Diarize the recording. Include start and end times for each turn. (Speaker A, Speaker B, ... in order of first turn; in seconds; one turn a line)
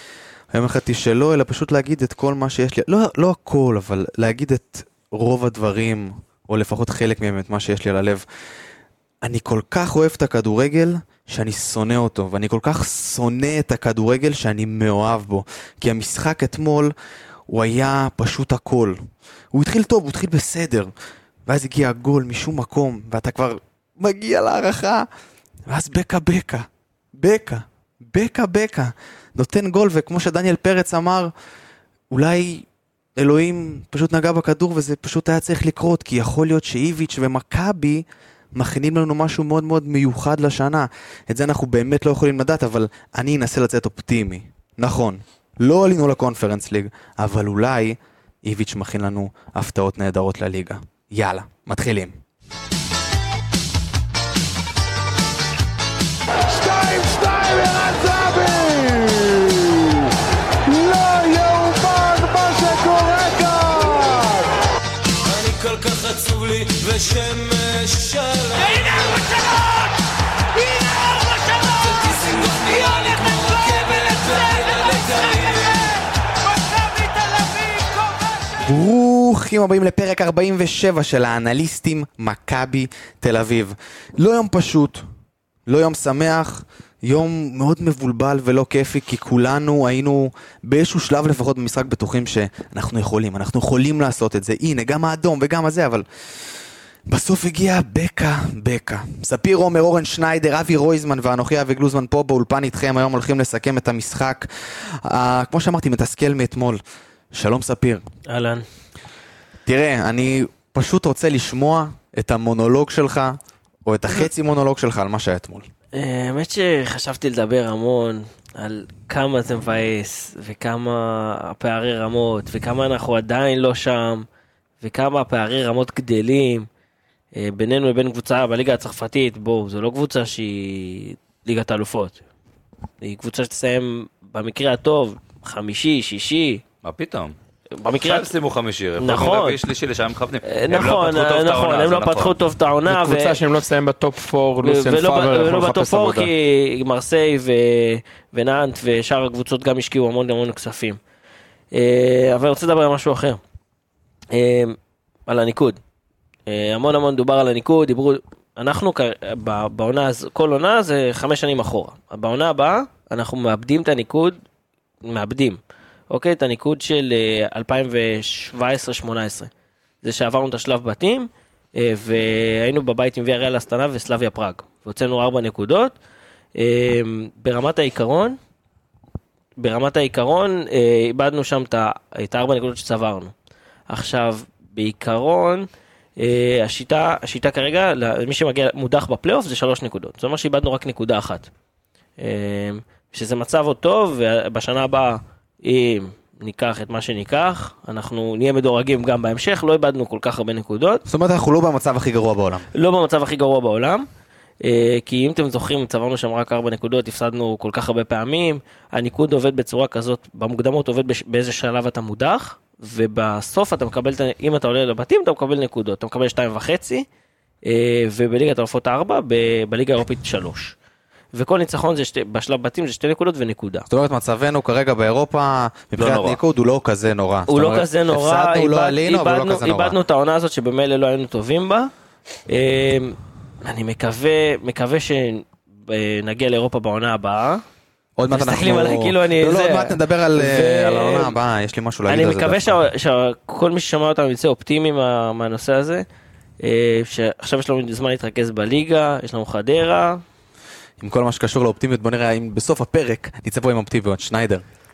Speaker A: 0.5-8.2
Speaker A: 9.2-16.9
Speaker A: 17.5-20.9
Speaker A: 21.5-25.1
Speaker A: 25.7-31.3
Speaker A: 32.1-52.2
Speaker A: 56.8-57.2
Speaker B: 56.9-59.2
Speaker A: 58.2-59.1
Speaker A: 60.8-63.2
Speaker B: 61.0-64.4
Speaker B: 65.2-69.8
Speaker B: 70.7-76.0
Speaker B: 77.1-77.9
Speaker A: 78.6-85.1
Speaker A: 85.7-96.0
Speaker A: 97.1-106.8
Speaker A: 107.3-108.0
Speaker C: 108.3-108.7
Speaker A: 109.7-115.7
Speaker C: 116.0-124.3
Speaker C: 124.8-126.7
Speaker C: 127.4-132.2
Speaker C: 133.0-136.6
Speaker D: 136.8-137.3
Speaker C: 137.8-138.3
Speaker D: 137.9-142.3
Speaker C: 139.0-139.6
Speaker C: 140.4-143.3
Speaker E: 142.9-146.3
Speaker C: 144.6-151.0
Speaker C: 151.7-153.4
Speaker C: 154.3-155.8
Speaker C: 156.5-164.4
Speaker C: 165.0-169.5
Speaker C: 170.0-175.9
Speaker C: 176.6-178.4
Speaker C: 179.6-183.3
Speaker C: 183.9-191.5
Speaker C: 192.2-201.0
Speaker A: 201.1-202.7
Speaker C: 202.7-204.1
Speaker C: 204.6-217.1
Speaker C: 217.7-220.8
Speaker C: 221.3-223.9
Speaker A: 223.9-230.0
Speaker D: 226.0-226.4
Speaker C: 227.5-231.9
Speaker C: 232.5-237.6
Speaker A: 238.2-242.8
Speaker C: 238.3-241.4
Speaker C: 242.1-246.1
Speaker C: 246.6-250.2
Speaker A: 251.0-254.6